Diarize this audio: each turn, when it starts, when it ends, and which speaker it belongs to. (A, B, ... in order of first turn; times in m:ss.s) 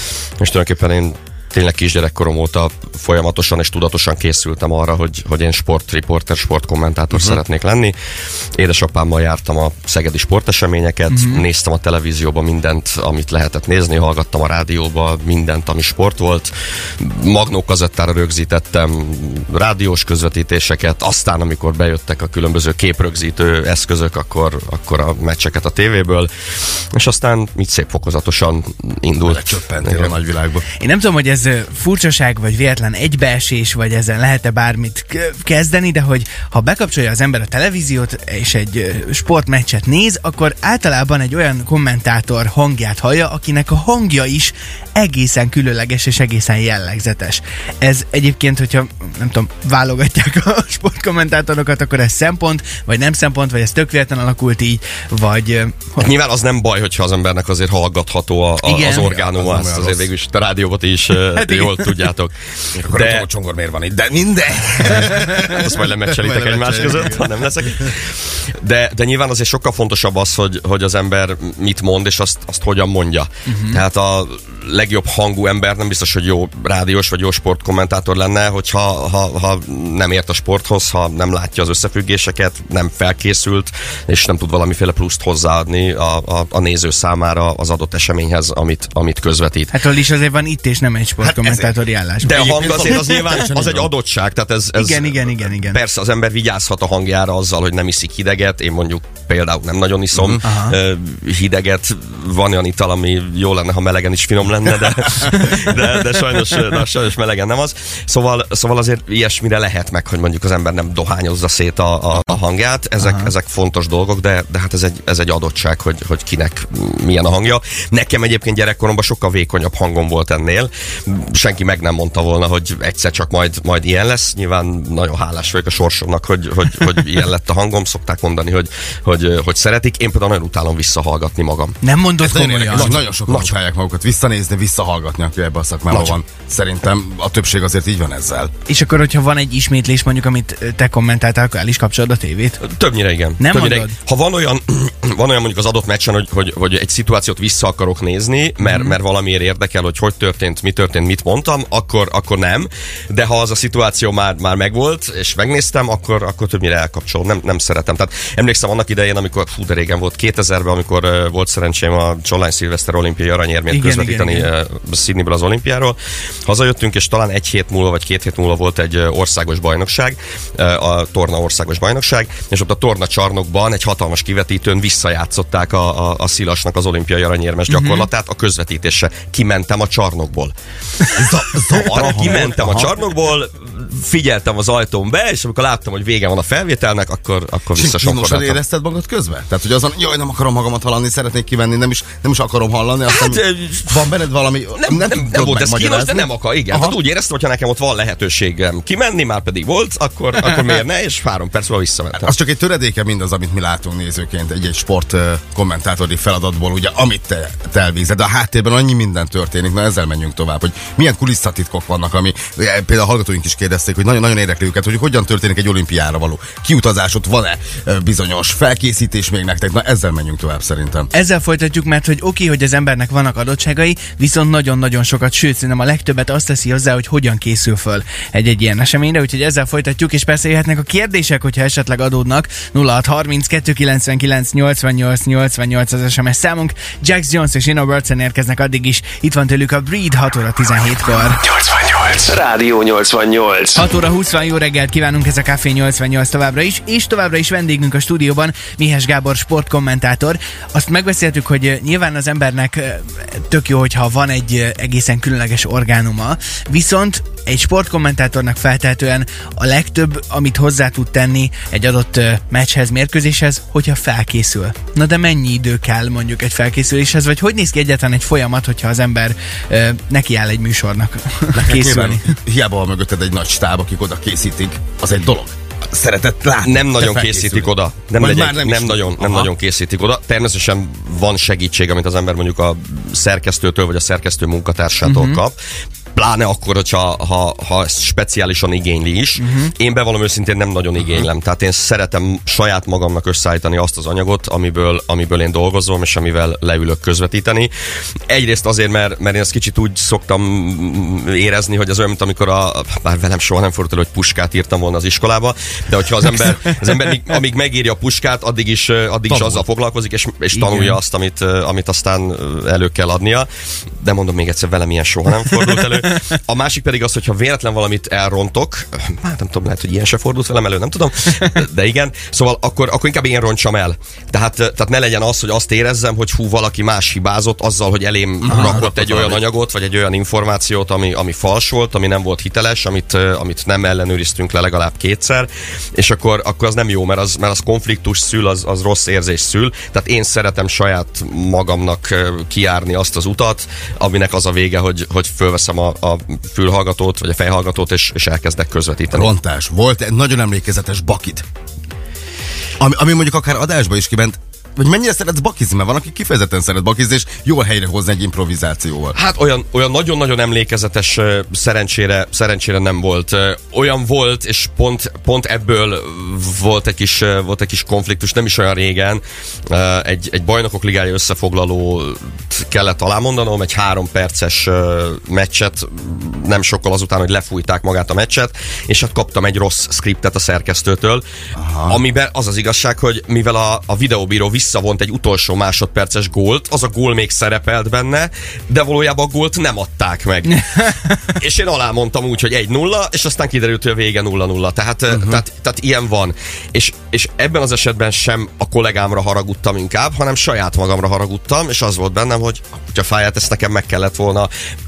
0:00.4-0:07.9 A
0:07.1-0:07.4 B
0:08.5-0:30.2 A
0:11.1-0:11.4 C
0:29.2-0:30.6 B
0:30.8-0:56.1 C
0:56.0-1:03.2 A
0:58.6-0:59.1 C
0:58.9-1:00.1 B
1:01.2-1:02.0 C
1:02.8-1:07.9 B
1:04.9-1:29.7 A
1:13.5-1:13.8 C
1:29.7-1:33.2 C
1:31.2-2:11.8 A
1:32.2-1:33.9 B
1:34.8-1:35.8 C
1:40.2-1:40.4 B
1:40.4-1:40.8 C
1:53.0-1:53.3 C
2:11.8-2:13.0 C
2:12.2-2:18.5 B
2:12.7-2:13.5 A
2:15.9-2:16.2 A
2:18.7-2:22.6 C
2:22.6-3:00.5 A
2:23.4-2:23.9 C
2:28.6-2:29.0 C
2:43.7-2:44.5 C
2:57.7-2:58.1 C
3:01.2-3:02.9 B
3:01.5-3:08.6 A
3:07.8-3:17.0 B
3:13.1-3:14.2 A
3:14.8-3:22.3 A
3:22.2-3:41.1 B
3:41.1-4:01.4 C
4:01.5-4:03.8 D
4:03.7-4:32.3 C
4:31.5-4:39.5 B
4:36.6-4:45.6 A
4:45.0-4:45.4 C
4:46.1-4:57.7 A
4:49.4-4:49.7 C
4:58.3-5:13.5 A
5:09.3-5:09.7 B
5:10.5-5:11.0 C
5:14.0-5:49.3 A
5:28.4-5:29.4 B
5:28.5-5:28.8 C
5:49.1-5:51.4 B
5:52.8-5:59.2 B
5:59.1-6:21.2 A
6:21.5-6:22.0 B
6:21.9-6:44.5 A
6:35.1-6:35.4 B